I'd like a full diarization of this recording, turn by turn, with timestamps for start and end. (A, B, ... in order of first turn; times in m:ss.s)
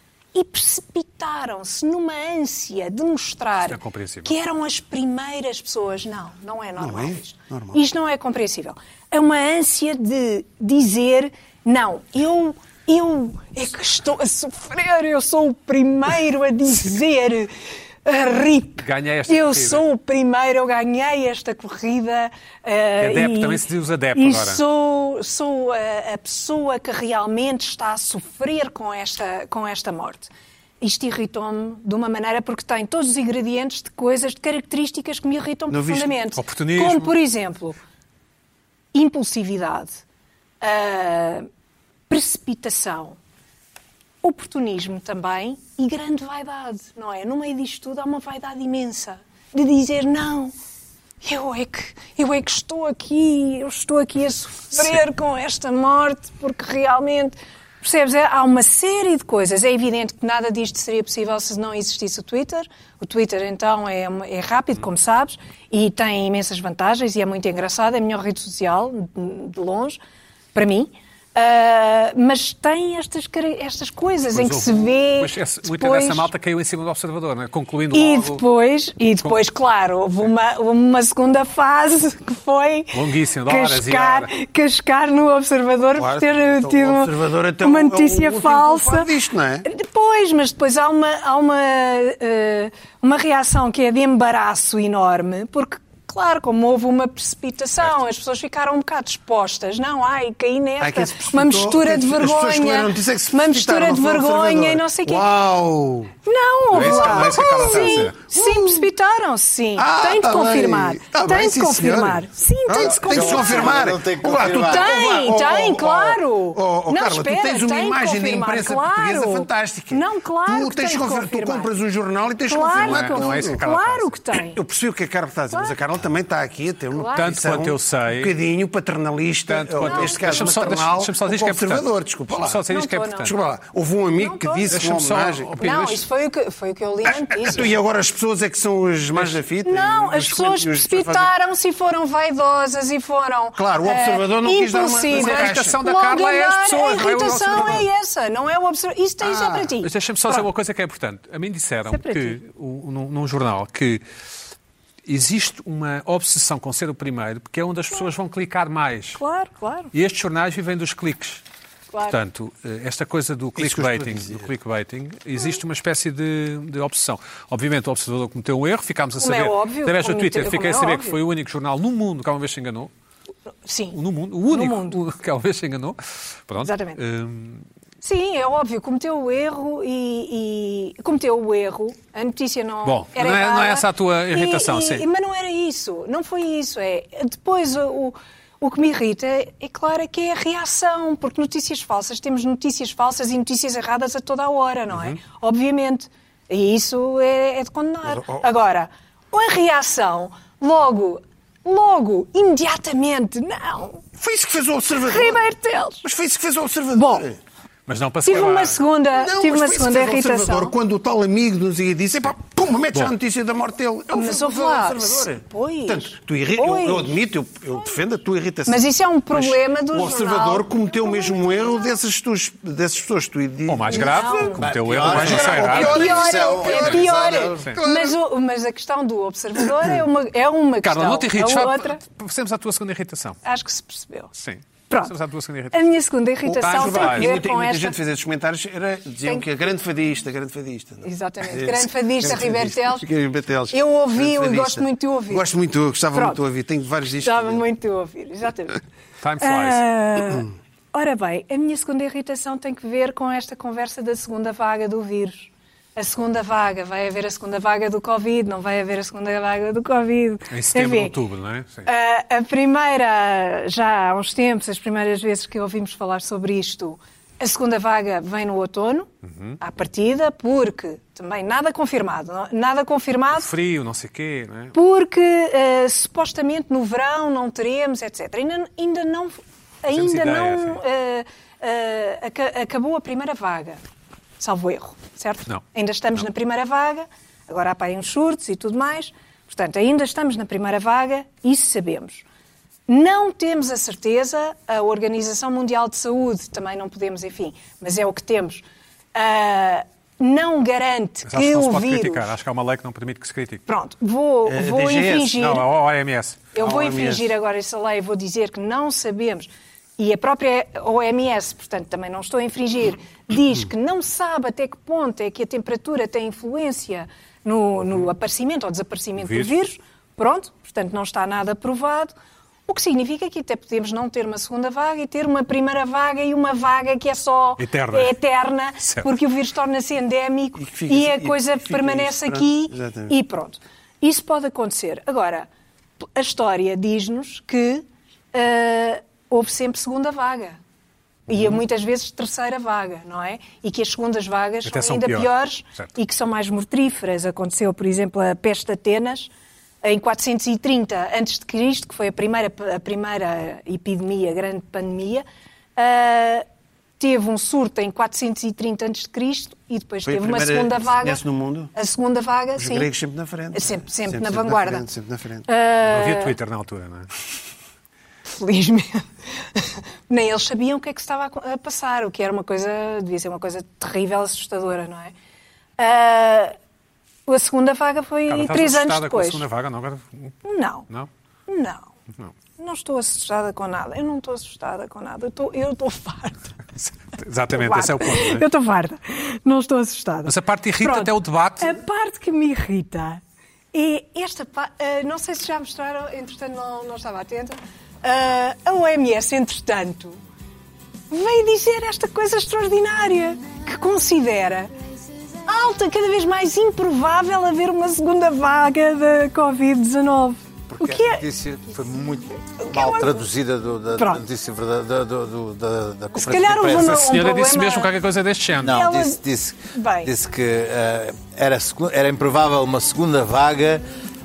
0:00.3-0:37.8 A
0:03.7-0:04.4 B
0:06.8-0:07.8 C
0:18.8-0:19.8 B
0:23.0-0:24.6 B
0:35.7-0:36.1 C
0:36.4-0:37.1 B
0:38.9-0:40.0 A
0:40.6-0:41.5 A
0:42.1-0:43.2 A
0:44.2-0:50.5 A
0:51.2-1:10.0 A
1:10.5-1:16.3 A
1:14.3-1:18.4 B
1:17.9-1:29.1 A
1:22.9-1:24.3 B
1:26.0-1:29.7 C
1:29.7-1:45.3 A
1:40.8-1:46.2 C
1:46.2-1:53.8 A
1:46.7-1:48.2 B
1:46.8-1:48.9 C
1:49.8-2:03.6 C
1:52.8-1:55.3 D
1:54.7-2:01.7 A
2:02.5-2:04.6 A
2:02.7-2:04.2 B
2:04.3-2:12.6 C
2:07.0-2:07.3 A
2:07.1-2:08.3 B
2:09.5-2:13.3 B
2:09.8-2:10.2 A
2:12.7-2:13.3 A
2:13.2-2:15.5 C
2:14.2-2:14.8 A
2:14.7-2:16.0 B
2:15.6-2:17.7 A
2:17.1-2:21.3 C
2:19.6-2:30.4 A
2:23.6-2:25.8 C
2:25.1-2:27.9 B
2:29.2-2:29.7 C
2:29.8-2:34.0 B
2:31.9-2:32.4 A
2:35.1-2:39.2 B
2:39.2-2:39.9 A
2:39.9-2:41.4 B
2:41.9-2:42.2 A
2:42.1-2:52.9 B
2:43.6-2:44.5 C
2:49.2-2:51.2 A
2:53.6-2:55.0 A
2:53.9-2:57.7 B
2:56.6-2:57.0 A
2:58.0-3:24.0 A
3:02.8-3:05.1 B
3:14.9-3:15.2 B
3:18.1-3:18.4 C
3:24.2-3:25.4 C
3:25.0-3:26.0 A
3:26.0-3:27.4 C
3:27.0-3:27.3 A
3:27.9-3:28.8 B
3:28.2-3:30.7 A
3:29.1-3:44.3 C
3:34.1-3:37.1 A
3:38.7-3:42.0 A
3:43.7-3:46.0 B
3:43.9-3:44.7 A
3:44.5-3:47.8 D
3:45.0-3:47.0 C
3:45.5-3:52.0 A
3:47.8-3:48.1 C
3:50.8-3:53.4 B
3:53.4-3:54.3 A
3:54.4-3:55.9 B
3:55.7-3:58.0 A
3:56.4-4:07.6 C
3:56.5-3:57.4 B
4:01.0-4:03.1 A
4:03.7-4:05.5 A
4:06.1-4:06.4 A
4:07.2-4:08.8 A
4:09.2-4:09.8 B
4:09.4-4:21.2 A
4:20.5-4:21.9 B
4:21.8-4:33.5 A
4:29.2-4:29.6 B
4:33.4-4:34.8 B
4:34.7-4:43.8 A
4:39.9-4:40.8 B
4:44.4-4:52.2 A
4:52.9-5:02.3 A
5:01.3-5:03.6 B
5:03.7-5:05.7 A
5:04.5-5:05.4 C
5:05.4-5:06.5 B
5:06.5-5:22.1 A
5:06.6-5:07.3 C
5:19.2-5:19.6 B
5:22.7-5:35.5 A
5:27.6-5:28.2 B
5:28.8-5:29.1 B
5:30.6-5:33.2 C
5:36.0-5:40.6 A
5:41.3-5:49.3 A
5:44.6-5:45.9 B
5:49.8-5:55.3 A
5:55.8-5:56.5 A
5:57.0-6:01.2 A
6:00.1-6:01.7 C
6:01.8-6:02.9 A
6:02.6-6:05.5 C
6:03.5-6:04.8 A
6:05.5-6:06.4 A
6:05.8-6:07.1 B
6:08.3-6:15.1 A
6:15.8-6:16.6 A
6:17.3-6:19.4 A
6:18.3-6:20.4 B
6:20.4-6:20.9 A
6:21.5-6:21.9 A
6:22.6-6:26.6 A
6:26.8-6:28.5 B
6:27.5-6:33.2 A
6:30.3-6:31.8 B
6:33.7-6:40.2 A
6:41.1-6:44.7 A
6:45.4-6:51.2 A
6:50.7-6:57.1 D
6:52.6-6:53.3 A
6:56.2-6:57.9 A
6:56.7-6:58.9 B
6:58.6-7:03.8 D
6:58.6-6:59.2 A
6:59.7-7:00.1 A